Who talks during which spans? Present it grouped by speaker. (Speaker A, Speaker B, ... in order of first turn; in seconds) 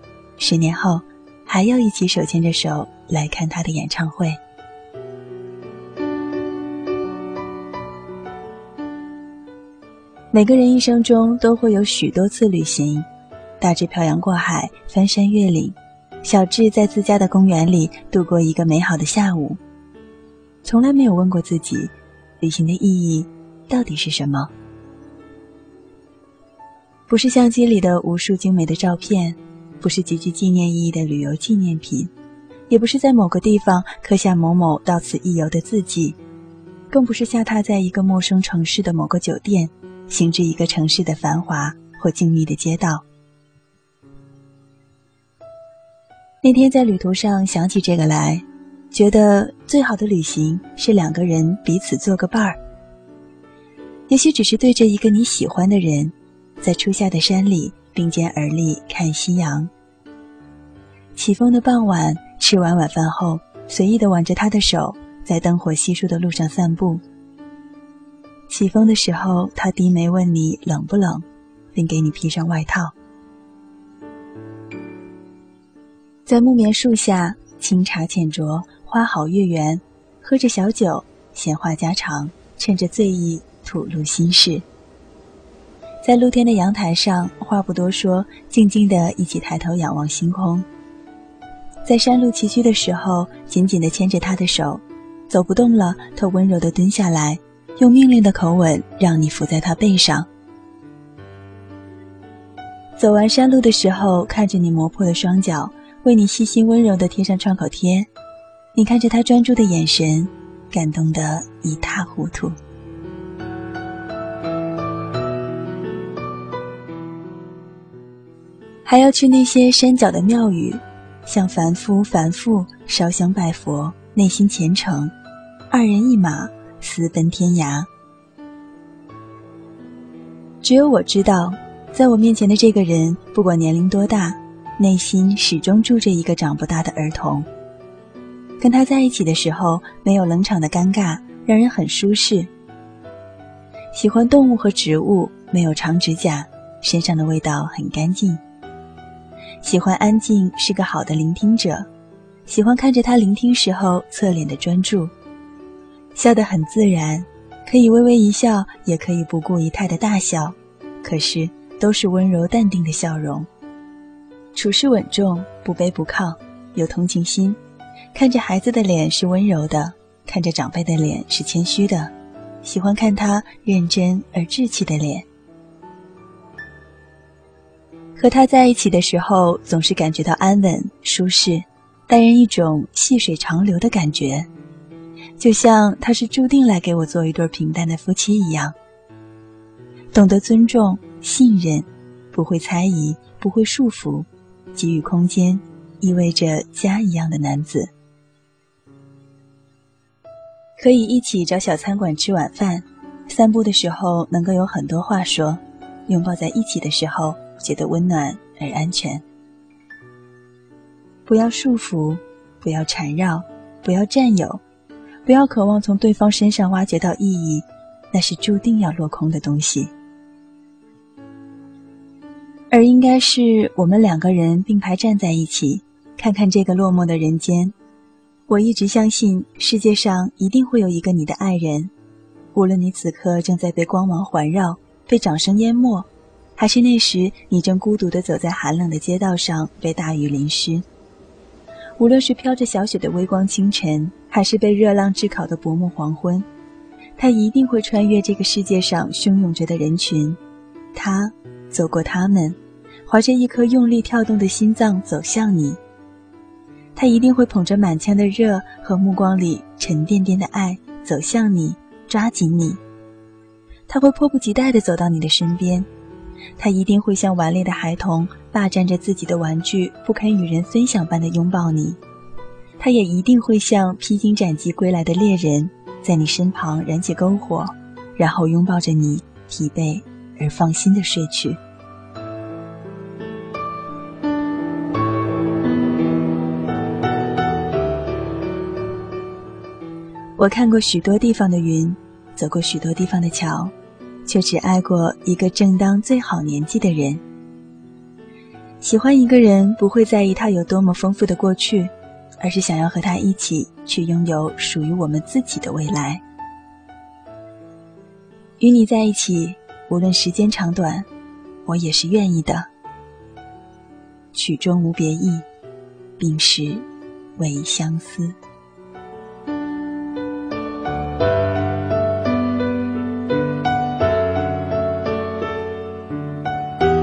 Speaker A: 0.4-4.4, 10.3-13.1, 13.6-19.6, 20.6-24.5, 27.1-32.1, 32.7-36.2, 36.9-43.0, 46.4-52.6, 54.1-59.7, 61.2-67.0, 68.5-72.9, 76.3-84.7, 86.0-90.7, 91.8-100.3, 103.0-108.1, 108.7-112.6, 118.8-125.1, 125.7-127.9, 130.6-137.5, 138.6-142.5, 143.9-148.4, 149.6-151.9, 152.5-155.1, 156.2-163.5, 164.5-167.6, 168.1-175.3, 178.2-184.5, 185.4-188.8, 190.1-197.9, 200.8-209.2, 211.3-214.6, 215.2-219.9, 222.7-227.7, 228.5-231.9, 232.5-240.9, 242.0-246.5, 247.2-250.4, 250.9-255.8, 257.0-262.8, 263.9-265.9, 266.6-272.0, 272.8-281.6, 290.4-293.7, 294.3-297.2, 298.8-306.2, 308.6-311.1, 311.7-312.7, 314.3-315.5, 316.2-318.4